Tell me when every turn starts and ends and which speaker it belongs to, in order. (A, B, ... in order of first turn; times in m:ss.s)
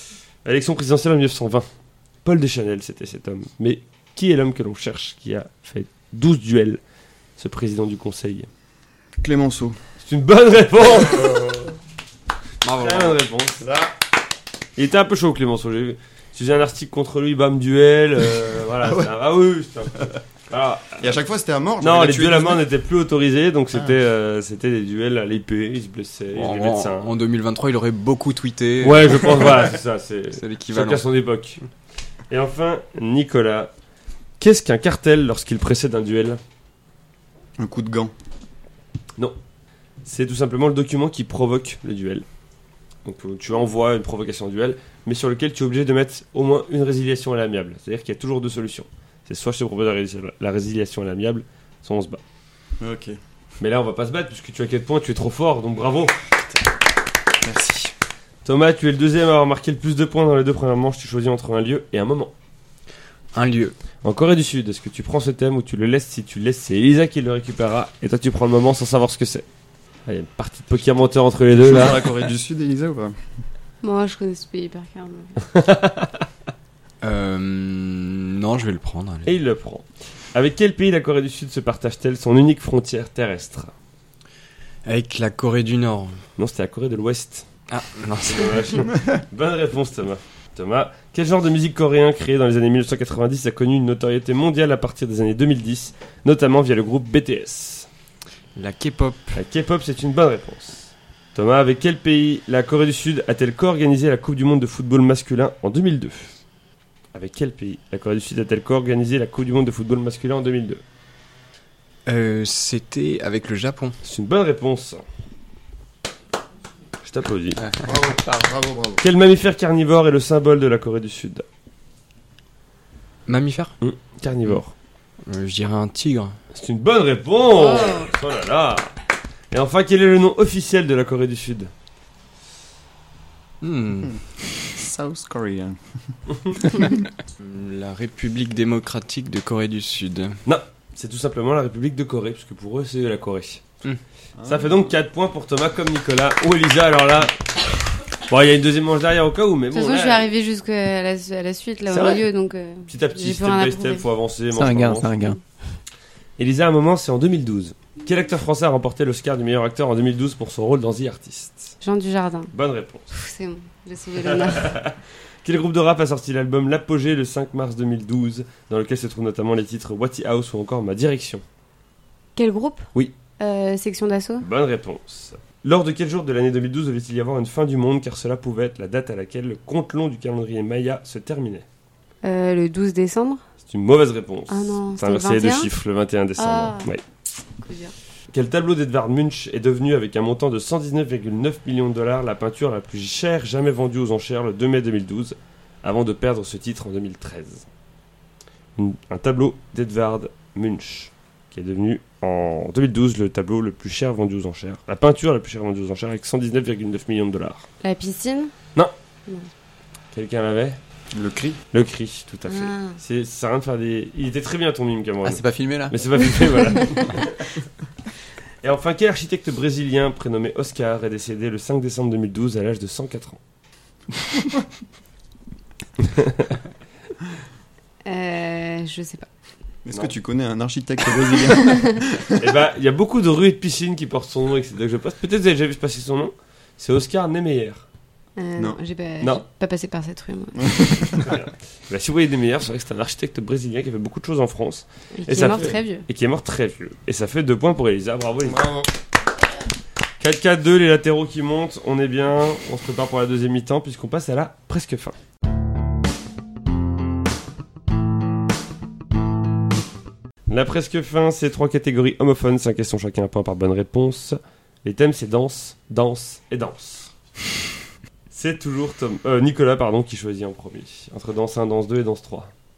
0:00.4-0:01.6 A
0:02.2-0:06.8 A
0:07.4-0:08.5 A
0:09.2-0:09.8 B
0:10.0-0:11.6 A
0:11.1-0:11.7 B
0:12.6-0:13.2 C
0:12.7-0:13.6 A
0:13.6-0:13.9 B
0:14.8-0:21.1 A
0:21.0-0:22.6 B
0:21.8-0:27.1 A
0:26.3-0:29.7 C
0:28.8-0:31.6 A
0:30.4-0:31.1 C
0:32.3-0:33.7 A
0:34.4-0:36.4 A
0:37.6-0:38.1 B
0:40.0-0:42.2 A
0:43.0-0:52.2 A
0:52.8-0:53.2 B
0:53.6-0:56.1 A
0:57.4-0:57.9 B
0:58.4-1:02.3 A
1:03.3-1:03.8 C
1:04.0-1:09.4 A
1:10.1-1:12.0 A
1:11.6-1:13.2 B
1:13.8-1:15.6 D
1:15.5-1:16.2 A
1:17.0-1:19.3 C
1:19.2-1:23.7 A
1:24.8-1:26.2 C
1:26.4-1:27.5 A
1:27.7-1:28.8 C
1:28.3-1:37.9 A
1:38.6-1:39.4 C
1:39.3-1:46.3 A
1:47.1-1:50.8 A
1:52.0-1:54.0 C
1:54.0-1:55.0 A
1:57.0-1:57.6 A
1:57.8-1:59.0 B
1:59.0-2:01.4 A
2:03.3-2:03.8 C
2:03.8-2:04.7 A
2:05.2-2:06.4 C
2:06.5-2:08.9 A
2:07.6-2:08.1 D
2:09.5-2:11.7 A
2:13.6-2:14.2 C
2:14.7-2:15.8 B
2:17.4-2:20.4 C
2:20.4-2:23.6 A
2:24.4-2:24.9 B
2:24.4-2:27.3 A
2:28.3-2:30.3 A
2:29.7-2:34.0 D
2:31.9-2:32.2 A
2:32.9-2:35.2 A
2:34.5-2:35.4 E
2:36.4-2:41.7 A
2:41.8-2:42.5 D
2:42.5-2:43.1 A
2:43.1-2:44.8 D
2:44.2-2:51.4 A
2:52.4-2:54.5 D
2:54.4-3:01.6 A
3:02.2-3:03.4 D
3:03.6-3:07.0 A
3:04.5-3:05.7 D
3:06.4-3:06.9 D
3:07.6-3:07.9 D
3:08.3-3:17.6 A
3:18.8-3:27.7 A
3:27.8-3:28.5 D
3:30.1-3:30.8 A
3:31.1-3:31.6 B
3:31.7-3:37.6 A
3:32.4-3:33.0 D
3:35.2-3:36.4 E
3:38.6-3:43.4 A
3:46.0-3:46.5 A
3:48.0-3:49.3 D
3:49.8-3:52.4 B
3:51.7-3:51.9 D
3:52.4-3:57.8 A
3:58.4-4:01.2 D
4:00.6-4:01.3 B
4:01.2-4:08.7 A
4:05.2-4:06.0 D
4:08.4-4:08.9 B
4:10.2-4:15.2 A
4:20.5-4:27.1 A
4:28.3-4:32.5 A